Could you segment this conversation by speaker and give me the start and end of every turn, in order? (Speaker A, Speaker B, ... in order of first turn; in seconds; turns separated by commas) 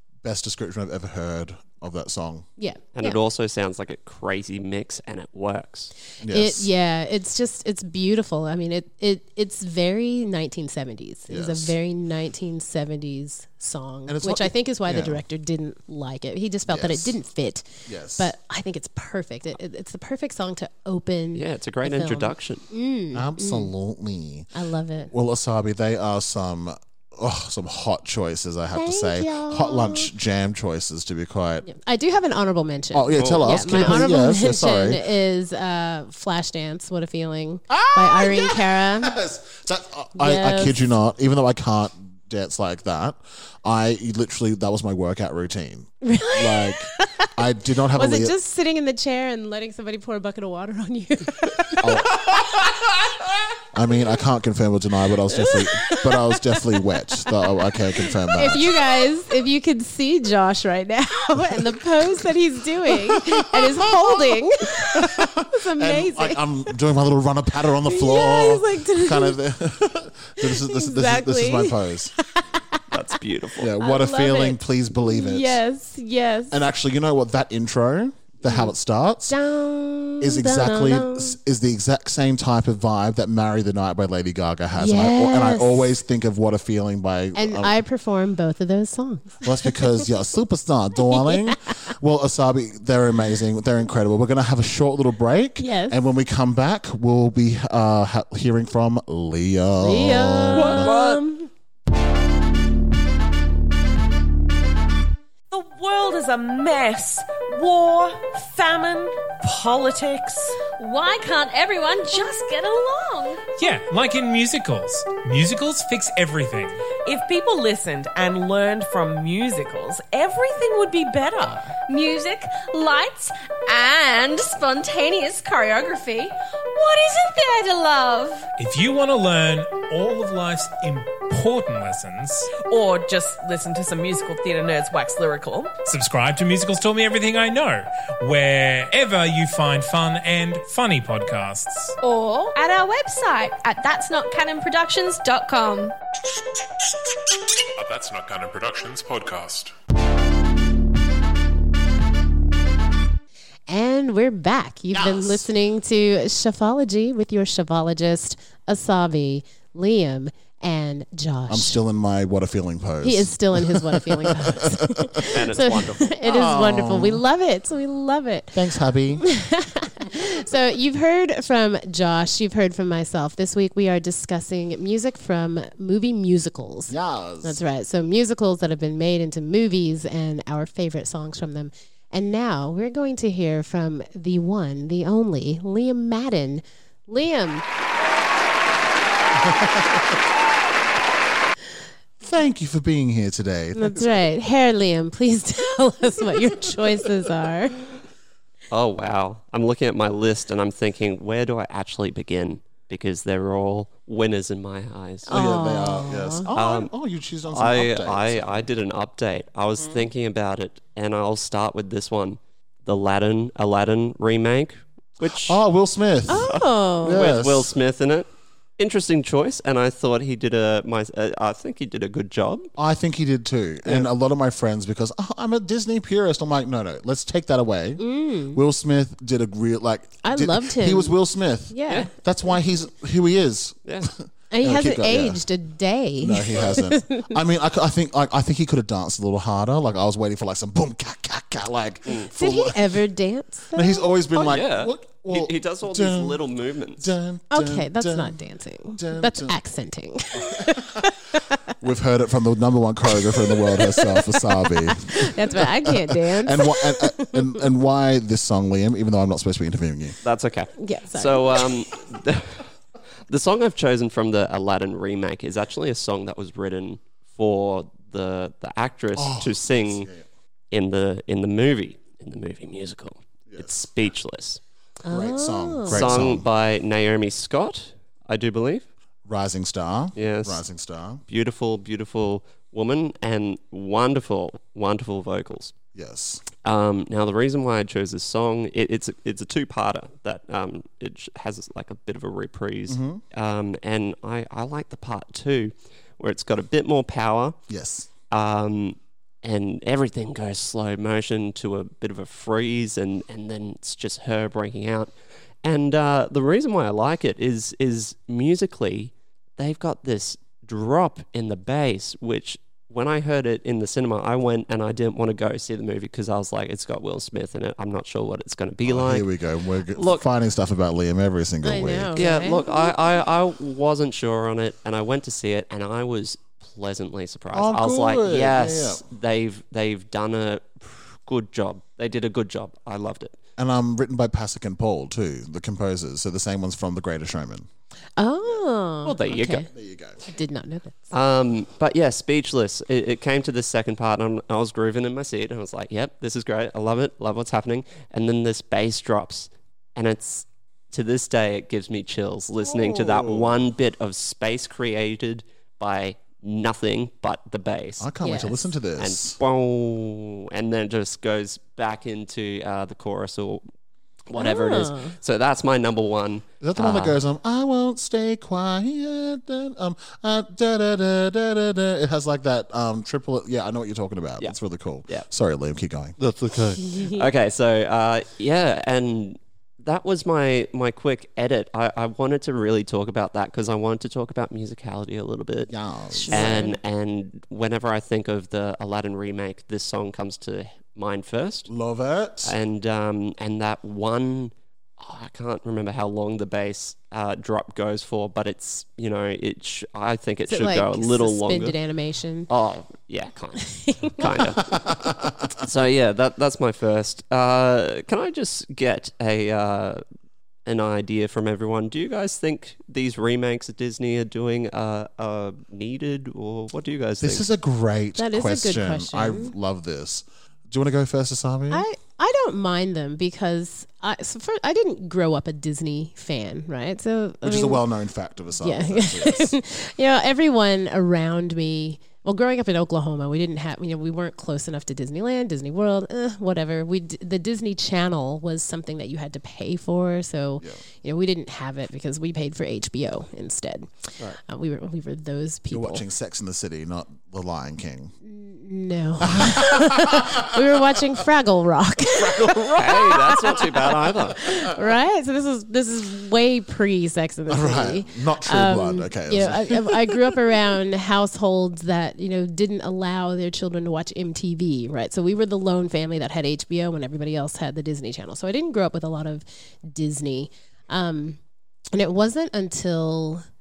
Speaker A: 0.2-2.5, Speaker B: 2.6-3.2, Speaker C: 3.0-5.9, Speaker A: 6.2-6.7, Speaker B: 6.3-23.7, Speaker A: 11.3-11.8, Speaker A: 14.1-15.2, Speaker A: 16.7-17.2, Speaker A: 17.9-18.3, Speaker C: 21.4-22.6, Speaker A: 23.1-24.5, Speaker B: 24.5-25.1, Speaker A: 25.1-31.7, Speaker B: 28.7-30.1, Speaker B: 31.6-39.2, Speaker A: 32.9-35.0, Speaker C: 33.2-34.0, Speaker A: 37.7-48.4, Speaker B: 40.2-40.9, Speaker B: 46.0-47.3, Speaker B: 47.9-52.4, Speaker A: 51.8-52.8, Speaker A: 53.7-58.7, Speaker B: 55.3-57.5, Speaker B: 58.3-66.4, Speaker A: 62.9-72.1, Speaker B: 67.9-69.4, Speaker B: 70.4-72.8, Speaker C: 72.9-73.7, Speaker A: 73.6-75.6, Speaker B: 73.8-76.6, Speaker A: 76.5-79.4, Speaker B: 78.4-78.7, Speaker B: 79.3-81.4, Speaker A: 80.2-87.8, Speaker B: 84.8-85.9, Speaker B: 87.3-90.0, Speaker A: 89.4-101.0, Speaker B: 91.1-91.5, Speaker B: 95.6-96.0, Speaker B: 99.8-101.5, Speaker C: 100.6-101.0, Speaker D: 105.5-110.6, Speaker E: 110.7-113.4, Speaker F: 113.6-116.8, Speaker D: 117.0-121.8, Speaker E: 121.9-128.5, Speaker F: 128.6-132.5, Speaker D: 132.5-135.7, Speaker F: 135.8-142.0, Speaker D: 142.0-142.5, Speaker E: 142.5-145.9, Speaker G: 147.8-149.7, Speaker B: 153.7-161.8, Speaker A: 154.9-155.5, Speaker A: 161.5-165.1, Speaker B: 163.0-168.6, Speaker C: 165.3-166.2, Speaker A: 166.2-167.2, Speaker A: 168.5-169.2, Speaker B: 169.2-187.7, Speaker A: 176.9-177.6, Speaker A: 189.4-190.1, Speaker A: 192.2-194.2, Speaker B: 193.8-197.8, Speaker C: 198.7-205.5, Speaker B: 205.3-206.5, Speaker A: 205.3-208.7, Speaker C: 206.5-206.9, Speaker C: 207.5-215.6, Speaker A: 209.8-210.1, Speaker A: 215.3-217.7, Speaker B: 216.3-217.3, Speaker C: 216.3-222.7, Speaker A: 222.8-235.4, Speaker B: 228.0-228.6, Speaker B: 230.2-231.2, Speaker B: 231.7-232.1, Speaker C: 233.8-234.1, Speaker B: 234.5-237.3, Speaker A: 236.2-243.0, Speaker B: 242.3-244.1, Speaker A: 243.7-248.4, Speaker C: 244.3-247.1, Speaker B: 247.5-251.6, Speaker A: 249.0-249.6, Speaker A: 250.4-251.1, Speaker A: 251.8-260.2, Speaker B: 253.2-257.4, Speaker C: 260.2-262.6, Speaker B: 260.8-261.6, Speaker C: 263.3-270.1, Speaker A: 269.2-270.2, Speaker C: 270.7-274.6, Speaker B: 275.0-276.2, Speaker A: 275.1-276.5, Speaker C: 275.9-278.9, Speaker A: 279.3-281.2, Speaker C: 280.2-280.6, Speaker C: 281.3-285.7, Speaker A: 285.9-286.5, Speaker C: 286.6-297.6, Speaker A: 292.9-293.2, Speaker A: 297.7-298.1, Speaker C: 298.3-305.1, Speaker C: 305.6-319.3, Speaker A: 318.8-322.2, Speaker C: 319.9-320.2, Speaker B: 321.6-322.6, Speaker C: 322.2-333.4, Speaker A: 327.5-329.0, Speaker A: 333.6-337.7, Speaker B: 338.2-339.7, Speaker C: 339.0-339.7, Speaker A: 339.7-340.2, Speaker B: 340.2-341.1, Speaker C: 341.1-358.1, Speaker A: 352.6-353.6, Speaker A: 358.0-359.4, Speaker B: 358.2-358.7, Speaker C: 359.0-363.6, Speaker C: 364.3-367.2, Speaker B: 364.4-365.1, Speaker A: 366.6-376.8, Speaker C: 376.2-385.7, Speaker B: 376.8-377.2, Speaker A: 385.7-386.7, Speaker B: 386.3-386.8, Speaker C: 386.3-391.7, Speaker A: 391.7-392.6, Speaker C: 392.4-401.8, Speaker B: 400.5-402.5, Speaker C: 402.5-404.8, Speaker B: 403.8-404.2, Speaker A: 404.7-405.5, Speaker C: 405.6-410.0, Speaker C: 410.7-417.5, Speaker A: 417.2-421.9, Speaker B: 418.2-419.5, Speaker B: 421.7-427.8, Speaker A: 427.4-429.6, Speaker B: 428.6-446.0, Speaker A: 445.7-448.1, Speaker B: 448.2-453.6, Speaker A: 449.2-450.8, Speaker A: 452.1-453.6, Speaker C: 452.8-454.4, Speaker B: 454.4-471.4, Speaker A: 457.5-460.4, Speaker B: 471.9-473.4